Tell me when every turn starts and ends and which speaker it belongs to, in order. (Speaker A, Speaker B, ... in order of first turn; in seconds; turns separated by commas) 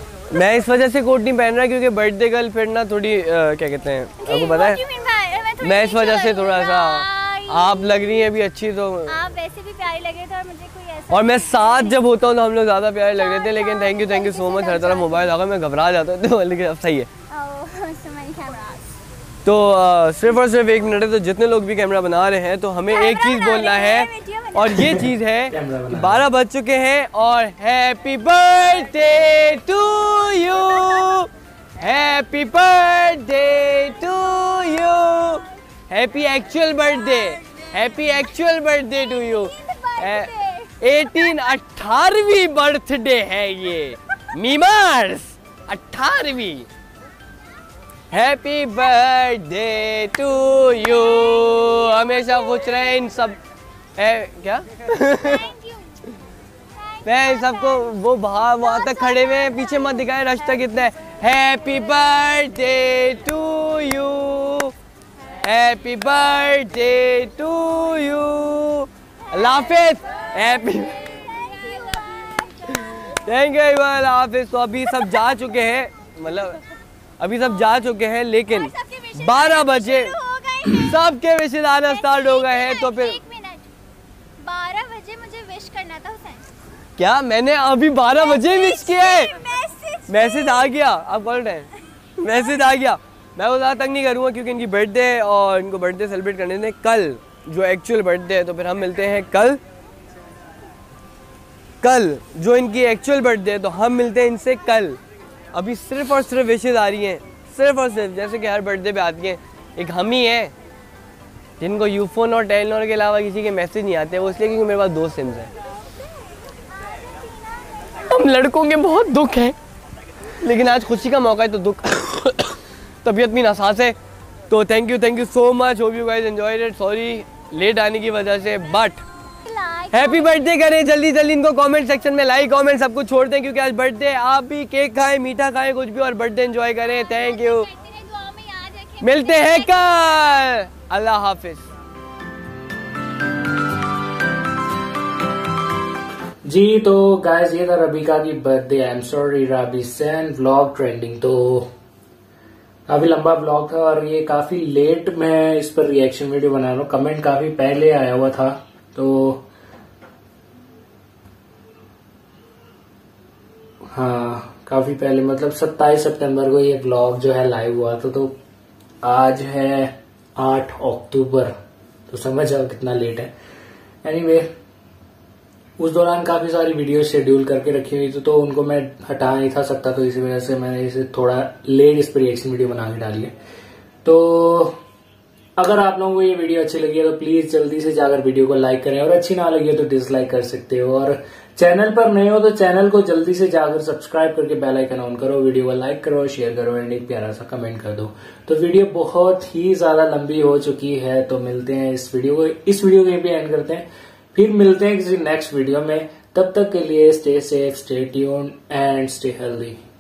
Speaker A: 0.3-4.8, Speaker B: 4.2-8.2, Speaker A: 5.6-9.2, Speaker B: 9.1-12.0, Speaker A: 11.1-17.1, Speaker B: 13.1-15.3, Speaker B: 17.3-18.9, Speaker A: 19.4-46.7, Speaker B: 22.9-25.0, Speaker C: 25.5-26.3, Speaker B: 30.3-31.1, Speaker B: 37.0-38.3, Speaker B: 38.8-40.9, Speaker A: 48.1-53.4, Speaker A: 54.0-55.5, Speaker B: 55.2-56.0, Speaker B: 56.7-60.1, Speaker A: 57.0-64.7, Speaker A: 65.4-71.1, Speaker B: 69.3-73.2, Speaker A: 72.7-76.6, Speaker A: 77.2-80.2, Speaker B: 78.5-81.0, Speaker A: 80.7-83.2, Speaker B: 81.8-83.7, Speaker B: 84.4-86.5, Speaker A: 87.0-89.3, Speaker B: 88.1-90.8, Speaker A: 90.1-99.6, Speaker A: 101.8-105.0, Speaker A: 105.5-110.5, Speaker A: 111.6-115.5, Speaker B: 116.8-118.0, Speaker A: 118.0-119.5, Speaker A: 120.4-124.0, Speaker A: 124.5-129.0, Speaker B: 129.4-130.4, Speaker A: 129.9-137.7, Speaker B: 136.8-140.6, Speaker A: 139.0-141.7, Speaker C: 146.5-151.7, Speaker C: 152.9-159.5, Speaker C: 163.9-168.3, Speaker C: 169.0-171.5, Speaker C: 172.1-173.3, Speaker C: 174.0-174.5, Speaker C: 175.8-183.3, Speaker C: 184.1-184.7, Speaker C: 185.6-209.8